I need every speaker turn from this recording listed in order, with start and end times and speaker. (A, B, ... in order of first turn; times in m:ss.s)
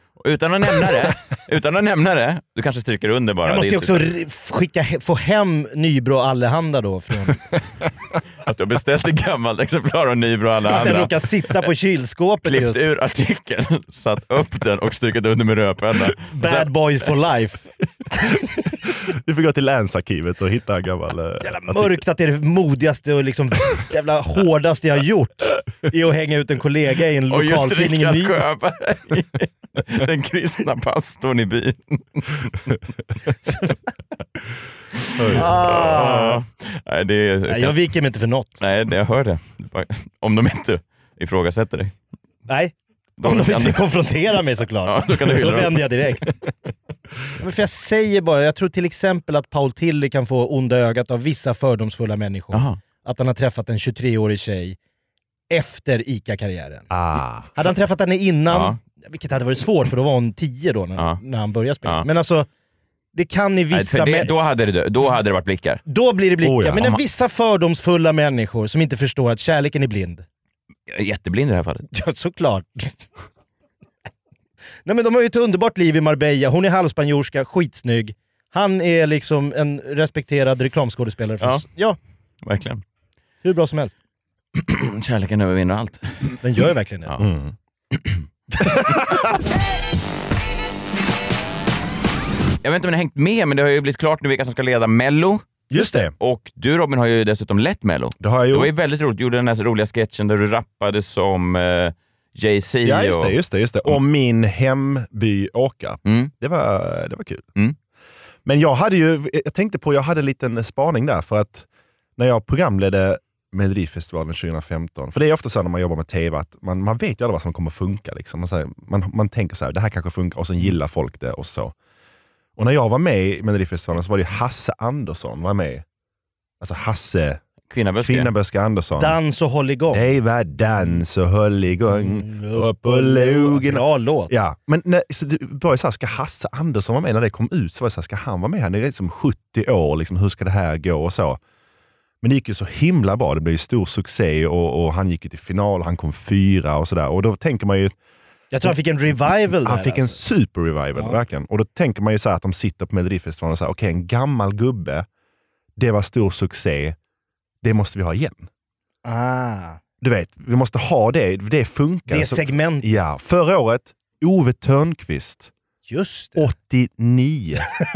0:00.2-0:04.1 A
0:03.4-0:07.4 B
0:08.4-0:11.6 A
0:10.7-0:12.8 B
0:12.4-0:16.7 A
0:16.3-0:17.7 B
0:19.0-0:22.0 C
0:21.4-0:28.4 B
0:27.3-0:32.8 A
0:33.4-0:33.7 B
0:35.1-0:37.8 A
0:35.2-0:35.7 C
0:35.3-0:36.4 B
0:37.5-0:38.6 B
0:38.6-0:41.9 A
0:42.5-0:46.3 B
0:43.2-0:43.9 A
0:44.8-0:46.2 A
0:47.4-0:54.8 B
0:52.5-0:52.8 A
0:55.5-0:56.9 B
0:56.9-0:57.5 C
0:57.5-1:02.5 B
0:58.5-0:58.8 A
1:03.1-1:04.3 B
1:03.7-1:05.8 A
1:05.9-1:10.2 B
1:06.4-1:07.0 C
1:10.9-1:11.8 A
1:11.9-1:12.9 B
1:14.8-1:22.0 B
1:22.4-1:22.8 A
1:23.4-1:24.0 B
1:24.5-1:26.4 A
1:26.4-1:27.1 B
1:27.2-1:27.5 C
1:28.8-1:29.2 C
1:32.6-1:43.4 A
1:35.7-1:36.1 C
1:38.2-1:38.7 C
1:42.8-1:47.4 C
1:46.0-1:46.3 A
1:48.4-2:01.7 C
2:02.6-2:05.8 C
2:06.6-2:07.4 C
2:07.7-2:08.3 A
2:08.0-2:09.2 C
2:09.0-2:10.1 B
2:09.9-2:21.4 C
2:11.9-2:14.3 B
2:22.2-2:27.9 C
2:28.5-2:30.2 B
2:29.4-2:35.1 C
2:35.8-2:37.0 C
2:37.6-2:38.5 C
2:39.0-2:39.8 B
2:40.0-2:45.5 C
2:42.1-2:42.8 B
2:45.9-2:46.5 B
2:46.4-2:47.7 C